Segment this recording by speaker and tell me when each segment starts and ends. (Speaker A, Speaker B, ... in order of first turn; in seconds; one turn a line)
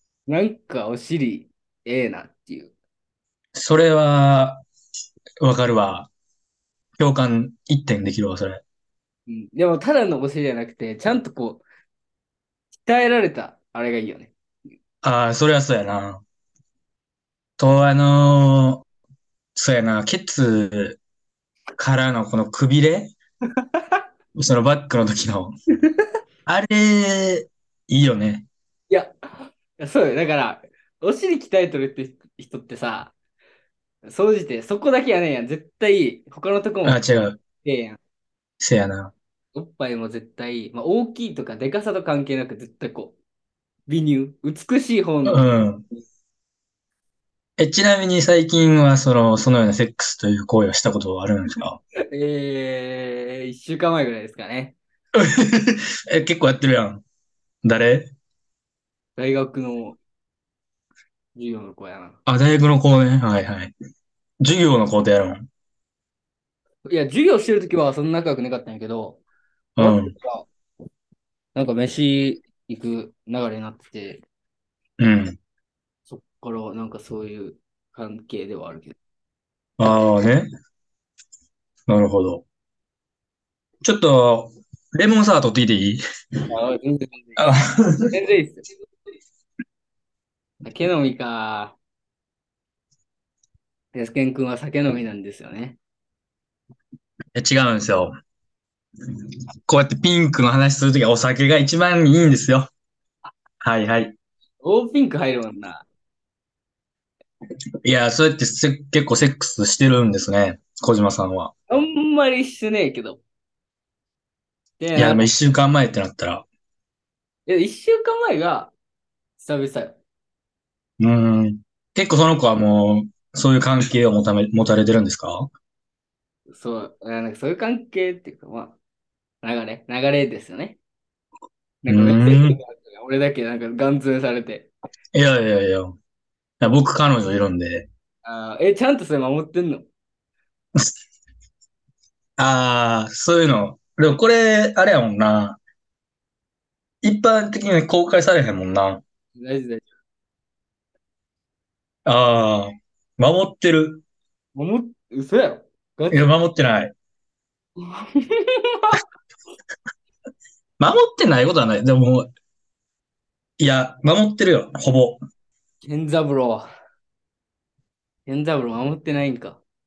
Speaker A: 0.3-2.7
Speaker B: 3.5-4.6
Speaker B: 5.4-6.1
Speaker B: 7.0-8.6
Speaker A: 9.3-11.6
Speaker A: 12.8-14.3
Speaker B: 15.0-16.2
Speaker B: 17.6-18.9
Speaker B: 19.6-21.0
Speaker B: 21.8-23.1
Speaker A: 23.6-24.0
Speaker B: 24.4-25.5
Speaker B: 26.5-28.5
Speaker A: 28.9-33.1
Speaker A: 34.0-37.0
Speaker B: 36.9-37.4
Speaker A: 37.6-38.0
Speaker B: 38.6-39.1
Speaker A: 39.5-43.2
Speaker A: 43.9-45.7
Speaker B: 45.3-45.8
Speaker B: 47.6-51.8
Speaker A: 52.1-54.8
Speaker B: 55.1-57.0
Speaker B: 57.6-58.1
Speaker A: 59.2-60.0
Speaker A: 61.4-62.2
Speaker B: 62.3-63.7
Speaker B: 64.4-65.5
Speaker A: 66.9-69.2
Speaker B: 69.8-70.1
Speaker A: 69.8-70.5
Speaker A: 71.5-74.2
Speaker B: 75.0-75.4
Speaker A: 76.1-79.0
Speaker B: 79.8-80.5
Speaker B: 81.9-82.4
Speaker B: 83.8-86.0
Speaker A: 86.5-87.4
Speaker B: 87.4-88.1
Speaker A: 88.1-88.6
Speaker A: 90.6-91.8
Speaker A: 93.9-95.8
Speaker B: 97.3-98.1
Speaker B: 99.7-102.7
Speaker B: 103.6-104.2
Speaker A: 104.6-105.9
Speaker B: 107.8-111.5
Speaker A: 111.7-113.2
Speaker A: 114.8-115.3
Speaker B: 115.0-116.5
Speaker A: 117.5-118.7
Speaker A: 119.4-120.0
Speaker B: 121.0-125.5
Speaker A: 126.5-128.8
Speaker A: 129.4-130.8
Speaker A: 131.8-134.7
Speaker B: 131.9-132.6
Speaker B: 135.1-136.0
Speaker B: 136.6-137.9
Speaker A: 138.2-139.9
Speaker B: 142.4-145.6
Speaker B: 147.0-149.0
Speaker A: 149.4-149.9
Speaker B: 152.1-154.0
Speaker A: 154.6-156.3
Speaker B: 156.1-156.9
Speaker A: 157.8-159.0
Speaker B: 160.8-162.3
Speaker B: 163.6-165.2
Speaker A: 165.8-166.7
Speaker A: 168.3-169.6